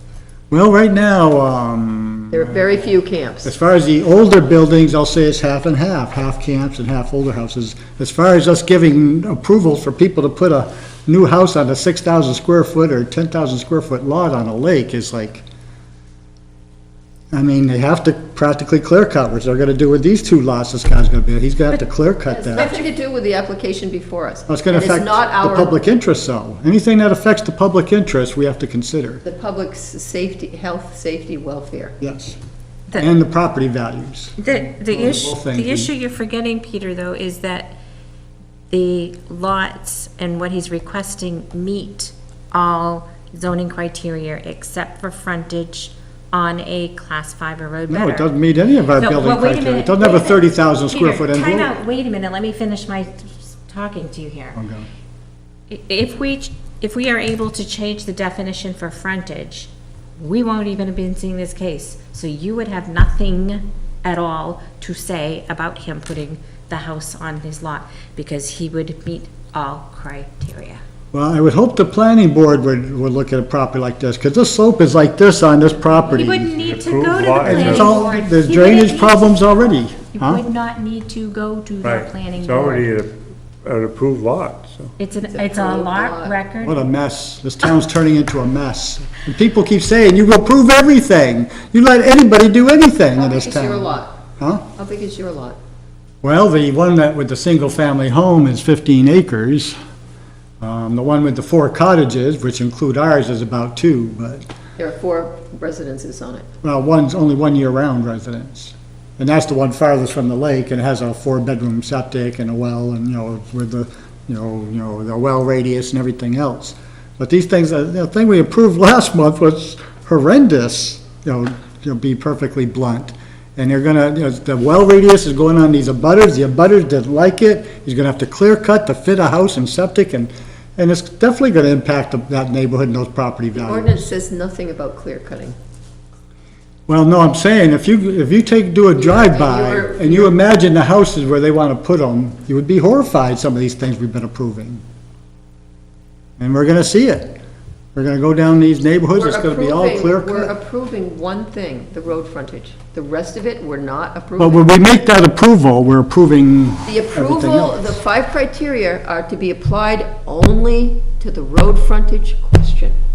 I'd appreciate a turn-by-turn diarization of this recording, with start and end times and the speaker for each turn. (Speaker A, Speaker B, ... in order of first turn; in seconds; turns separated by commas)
Speaker A: 0.5-2.8, Speaker B: 2.3-3.5, Speaker A: 3.4-15.4, Speaker A: 17.3-22.7, Speaker B: 22.3-25.7, Speaker A: 24.5-29.2, Speaker B: 29.2-32.0, Speaker A: 32.0-32.4, Speaker A: 32.9-35.9, Speaker C: 34.4-37.8, Speaker C: 38.7-48.3, Speaker A: 47.9-51.7, Speaker C: 48.9-54.6, Speaker A: 54.5-54.9, Speaker C: 55.7-70.8, Speaker A: 71.1-76.5, Speaker C: 76.0-79.4, Speaker D: 76.6-78.0, Speaker A: 77.4-80.4, Speaker C: 80.1-82.9, Speaker D: 81.8-84.9, Speaker C: 85.0-86.8, Speaker B: 85.3-86.4, Speaker A: 86.6-94.6, Speaker B: 93.1-94.2, Speaker B: 94.7-95.6, Speaker A: 96.2-99.8, Speaker A: 100.6-104.4, Speaker B: 104.8-106.5, Speaker A: 106.6-134.1, Speaker B: 133.5-135.6, Speaker A: 136.9-144.8, Speaker B: 138.9-140.3, Speaker A: 146.4-147.3, Speaker A: 147.9-150.5, Speaker B: 149.1-154.7, Speaker A: 154.4-158.0, Speaker B: 156.8-162.9